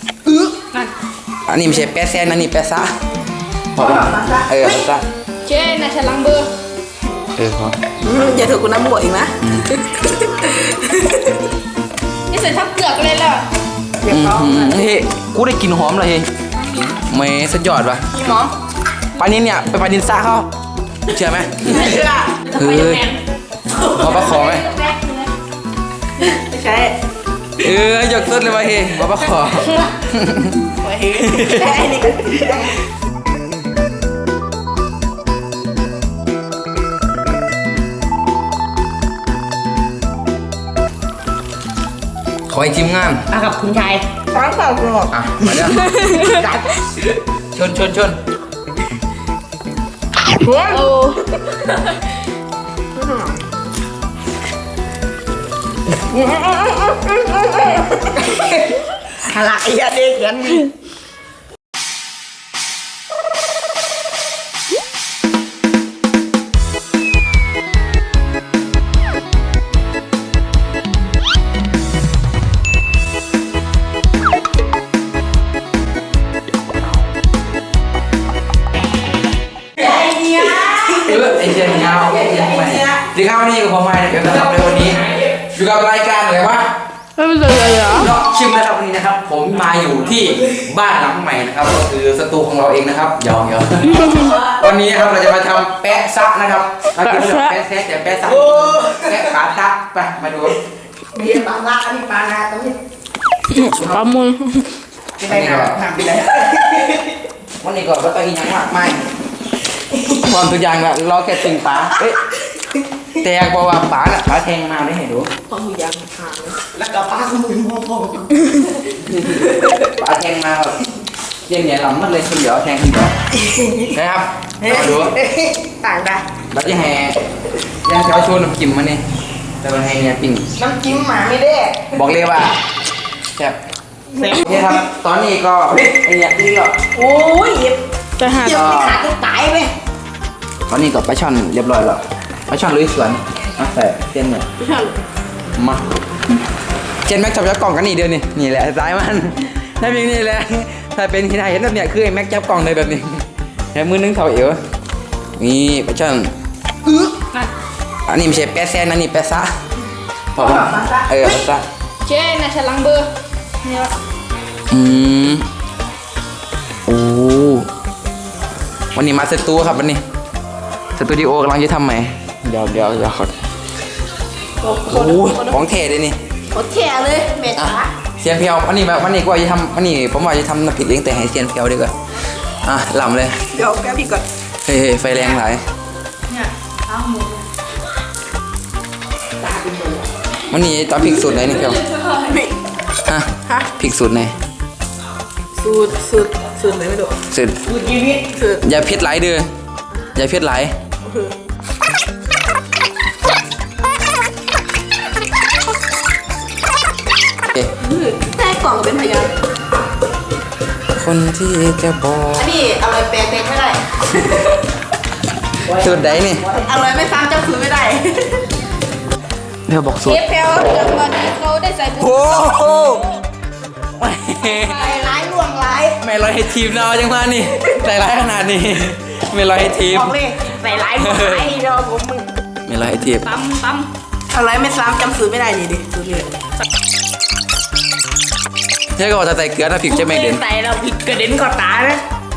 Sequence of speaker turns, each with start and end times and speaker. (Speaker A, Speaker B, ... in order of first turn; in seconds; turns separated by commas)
Speaker A: 1.4-2.9, Speaker A: 3.8-5.0, Speaker B: 3.8-4.8, Speaker C: 5.4-6.5, Speaker A: 7.4-7.8, Speaker B: 8.0-11.3, Speaker A: 9.4-9.7, Speaker C: 12.3-13.5, Speaker B: 14.0-15.0, Speaker A: 14.1-16.3, Speaker A: 16.9-18.1, Speaker B: 18.1-18.5, Speaker A: 19.2-20.5, Speaker A: 21.1-21.9, Speaker B: 21.6-22.4, Speaker C: 22.4-23.2, Speaker A: 22.5-23.1, Speaker C: 23.8-25.3, Speaker A: 23.8-24.7, Speaker B: 26.2-26.9, Speaker A: 27.6-31.7, Speaker B: 30.8-32.7, Speaker A: 42.5-43.3, Speaker B: 43.3-46.8, Speaker A: 45.1-45.9, Speaker C: 45.8-46.4, Speaker A: 47.5-48.2, Speaker B: 50.4-50.8, Speaker C: 50.6-51.8, Speaker B: 53.0-53.4, Speaker B: 56.1-60.7, Speaker B: 79.8-81.2, Speaker A: 80.9-86.7, Speaker B: 81.9-83.0, Speaker C: 87.2-88.1, Speaker A: 87.9-100.6, Speaker C: 93.9-94.3, Speaker C: 97.0-97.5, Speaker B: 98.3-99.2, Speaker B: 101.1-102.8, Speaker C: 103.5-104.7, Speaker B: 105.2-107.2, Speaker A: 105.3-105.8, Speaker A: 107.6-109.0, Speaker A: 110.1-112.2, Speaker A: 113.2-115.3, Speaker B: 115.5-118.7, Speaker A: 119.1-120.8, Speaker A: 121.5-123.1, Speaker B: 123.4-123.9, Speaker A: 123.9-125.2, Speaker B: 124.6-126.2, Speaker A: 126.5-127.2, Speaker A: 127.8-129.0, Speaker A: 129.6-130.5, Speaker B: 130.6-131.9, Speaker A: 131.9-132.6, Speaker B: 134.1-134.7, Speaker A: 134.2-136.8, Speaker B: 136.9-137.8, Speaker C: 138.2-138.7, Speaker B: 138.4-139.7, Speaker A: 138.5-139.0, Speaker A: 140.7-144.5, Speaker B: 144.6-144.9, Speaker A: 145.6-145.8, Speaker A: 147.1-154.6, Speaker A: 155.4-156.3, Speaker A: 158.1-159.5, Speaker A: 160.3-161.7, Speaker B: 160.3-161.1, Speaker C: 162.1-163.1, Speaker C: 163.6-163.9, Speaker A: 164.7-165.5, Speaker A: 166.9-167.7, Speaker A: 168.9-170.0, Speaker A: 171.0-173.3, Speaker B: 174.6-175.6, Speaker A: 174.9-176.2, Speaker B: 176.5-177.9, Speaker A: 177.5-181.9, Speaker A: 182.6-183.4, Speaker B: 183.5-184.2, Speaker A: 184.7-185.6, Speaker C: 186.3-187.4, Speaker B: 189.4-190.1, Speaker A: 190.5-191.8, Speaker C: 191.6-192.4, Speaker B: 192.2-192.6, Speaker A: 193.0-194.3, Speaker B: 195.6-198.6, Speaker A: 197.3-197.6, Speaker A: 198.6-199.5, Speaker A: 200.2-200.7, Speaker B: 201.1-201.3, Speaker B: 207.8-209.3, Speaker A: 210.9-212.5, Speaker B: 212.4-213.8, Speaker B: 215.7-218.4, Speaker A: 215.7-216.4, Speaker A: 219.7-220.2, Speaker C: 220.0-223.2, Speaker B: 222.0-223.0, Speaker A: 224.0-224.8, Speaker C: 224.5-225.0, Speaker B: 224.6-226.0, Speaker A: 226.0-230.2, Speaker B: 229.9-232.3, Speaker A: 231.0-231.5, Speaker A: 232.7-233.3, Speaker C: 233.2-233.9, Speaker B: 234.3-236.3, Speaker A: 239.0-240.4, Speaker B: 239.9-242.0